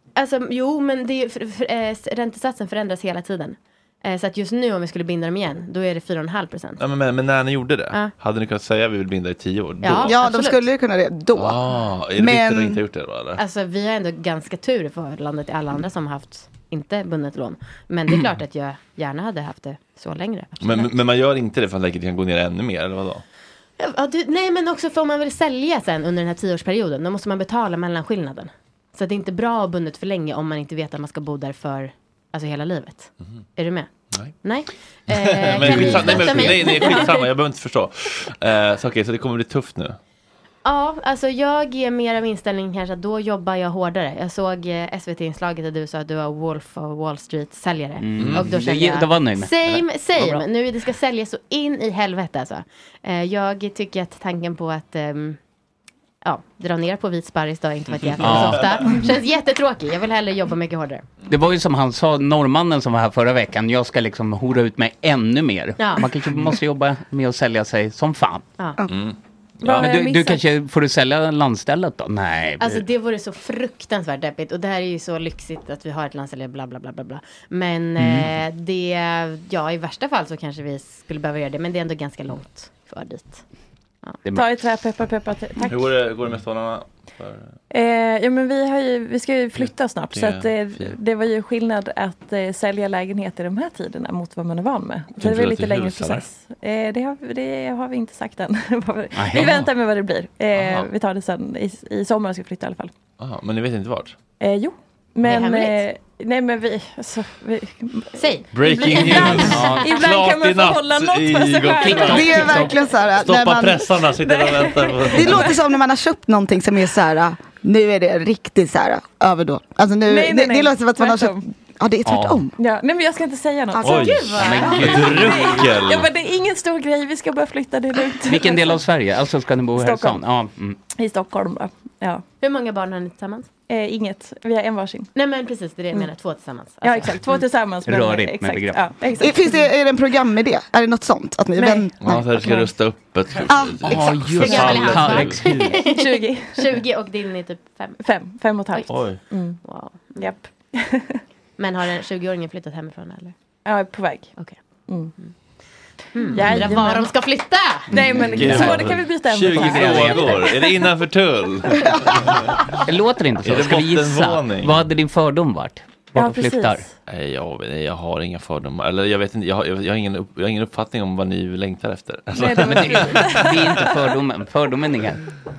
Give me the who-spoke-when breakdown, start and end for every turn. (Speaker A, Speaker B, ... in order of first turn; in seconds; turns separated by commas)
Speaker A: 0.2-6.8, Speaker B: 6.8-10.2, Speaker A: 9.8-10.6, Speaker C: 10.1-11.6, Speaker B: 11.3-13.4, Speaker C: 12.2-12.8, Speaker A: 13.4-20.9, Speaker B: 20.6-23.2, Speaker A: 23.8-37.3, Speaker B: 34.1-34.4, Speaker B: 35.1-40.0, Speaker A: 40.6-55.4, Speaker D: 48.0-50.5, Speaker B: 48.2-48.5, Speaker A: 56.2-61.1, Speaker D: 58.2-59.1, Speaker B: 58.3-58.6, Speaker D: 61.3-68.5, Speaker A: 65.8-66.1, Speaker B: 68.9-69.9, Speaker A: 69.7-70.4, Speaker D: 69.7-72.8, Speaker A: 72.6-83.4, Speaker D: 78.0-78.4, Speaker E: 84.3-86.0, Speaker B: 85.6-87.5, Speaker E: 87.7-102.9, Speaker B: 89.6-91.0, Speaker B: 95.2-96.3, Speaker D: 99.2-99.7, Speaker B: 100.6-100.9, Speaker B: 103.2-104.2, Speaker E: 104.4-112.2, Speaker A: 105.2-105.8, Speaker A: 108.2-109.8, Speaker B: 108.5-112.6, Speaker D: 111.8-112.9, Speaker C: 112.1-113.9, Speaker B: 113.2-115.5, Speaker E: 114.2-115.6, Speaker C: 115.1-122.5, Speaker E: 120.0-121.5, Speaker D: 122.0-122.5, Speaker E: 122.6-124.0, Speaker C: 123.8-124.0, Speaker B: 123.8-126.1, Speaker A: 123.8-125.6, Speaker D: 124.3-125.7, Speaker E: 125.3-128.8, Speaker D: 128.3-130.8, Speaker E: 129.8-130.2, Speaker E: 130.9-132.2, Speaker A: 132.4-133.5, Speaker E: 133.7-135.1, Speaker A: 135.2-137.4, Speaker E: 136.8-139.7, Speaker D: 137.8-138.9, Speaker C: 139.2-142.3, Speaker E: 141.6-142.7, Speaker B: 142.0-145.8, Speaker C: 143.5-143.8, Speaker D: 143.8-145.8, Speaker A: 144.3-148.0, Speaker E: 145.8-146.6, Speaker E: 148.0-149.6, Speaker A: 148.7-150.4, Speaker B: 148.9-149.2, Speaker E: 150.2-151.2, Speaker A: 151.6-153.3, Speaker E: 153.7-154.3, Speaker E: 154.9-155.1, Speaker A: 156.1-157.9, Speaker E: 156.3-157.2, Speaker D: 156.4-156.8, Speaker B: 157.9-162.5, Speaker E: 157.9-160.8, Speaker D: 158.4-159.0, Speaker D: 159.6-160.4, Speaker D: 162.9-166.9, Speaker B: 163.4-164.8, Speaker E: 166.2-166.9, Speaker B: 167.1-173.9, Speaker E: 172.3-173.6, Speaker D: 172.5-175.3